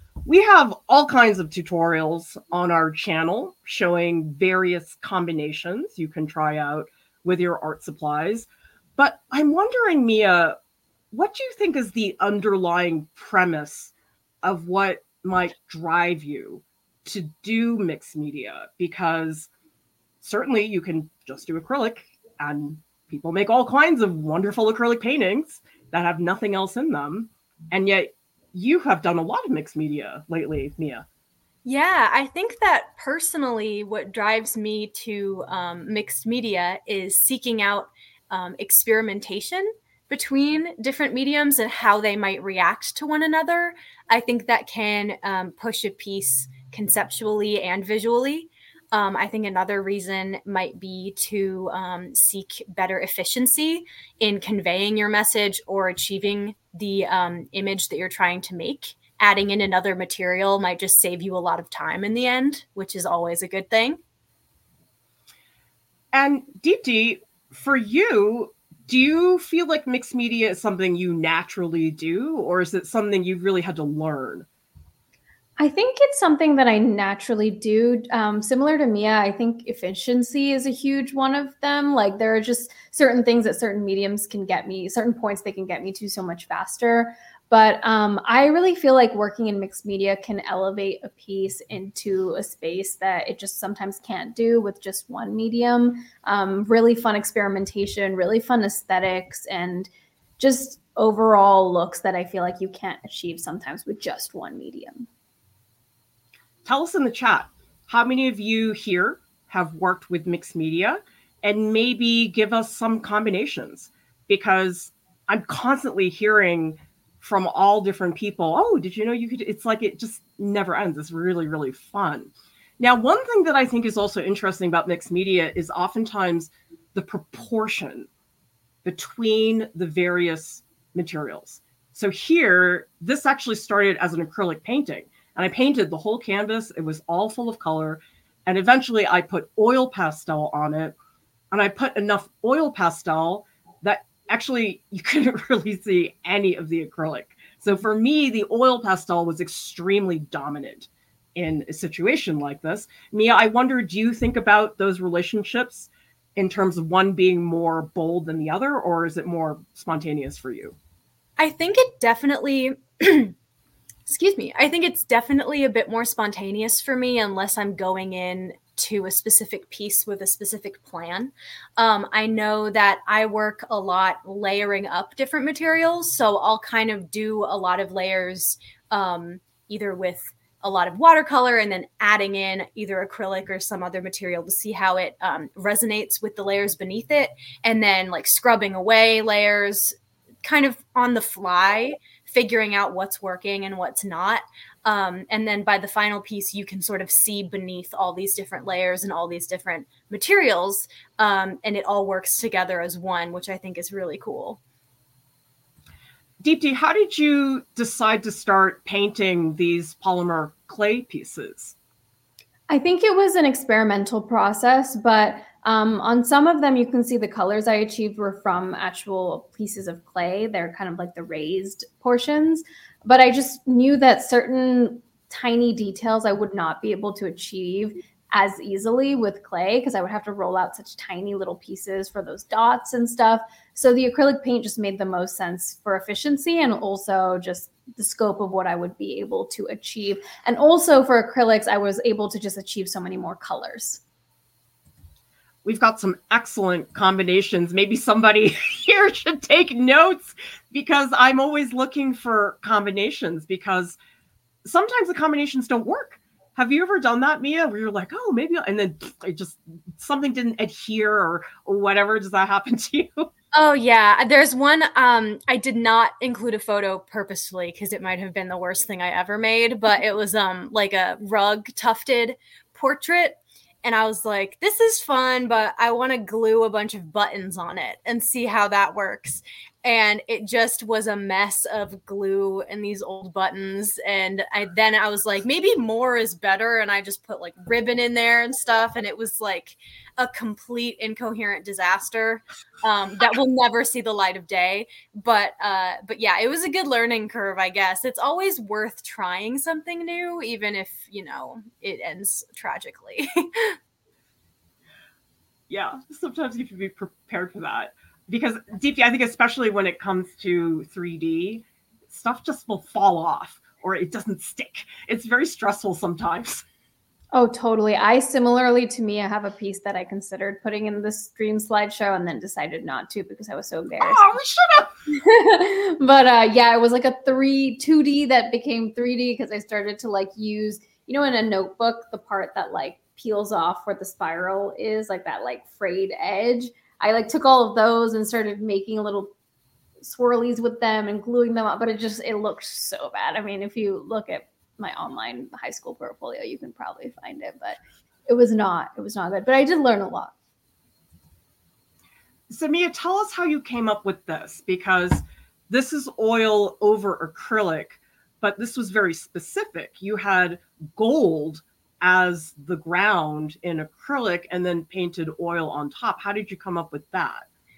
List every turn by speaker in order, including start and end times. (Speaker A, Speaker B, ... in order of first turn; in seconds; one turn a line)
Speaker A: 0.2-10.6
Speaker A: 11.1-13.9
Speaker A: 14.4-19.5
Speaker A: 20.2-31.1
Speaker B: 31.6-64.0
Speaker A: 66.1-74.5
Speaker C: 75.6-105.1
Speaker A: 106.7-128.1
Speaker A: 128.8-140.9
Speaker A: 141.5-160.8
Speaker B: 161.4-163.3
Speaker B: 164.1-204.6
Speaker A: 206.4-211.8
Speaker C: 212.7-244.0
Speaker A: 245.6-254.0
Speaker A: 254.7-263.3
Speaker B: 263.5-303.8
Speaker A: 305.7-316.6
Speaker C: 317.3-324.3
Speaker A: 324.0-324.9
Speaker C: 325.1-339.3
Speaker C: 340.0-350.3
Speaker A: 352.5-367.5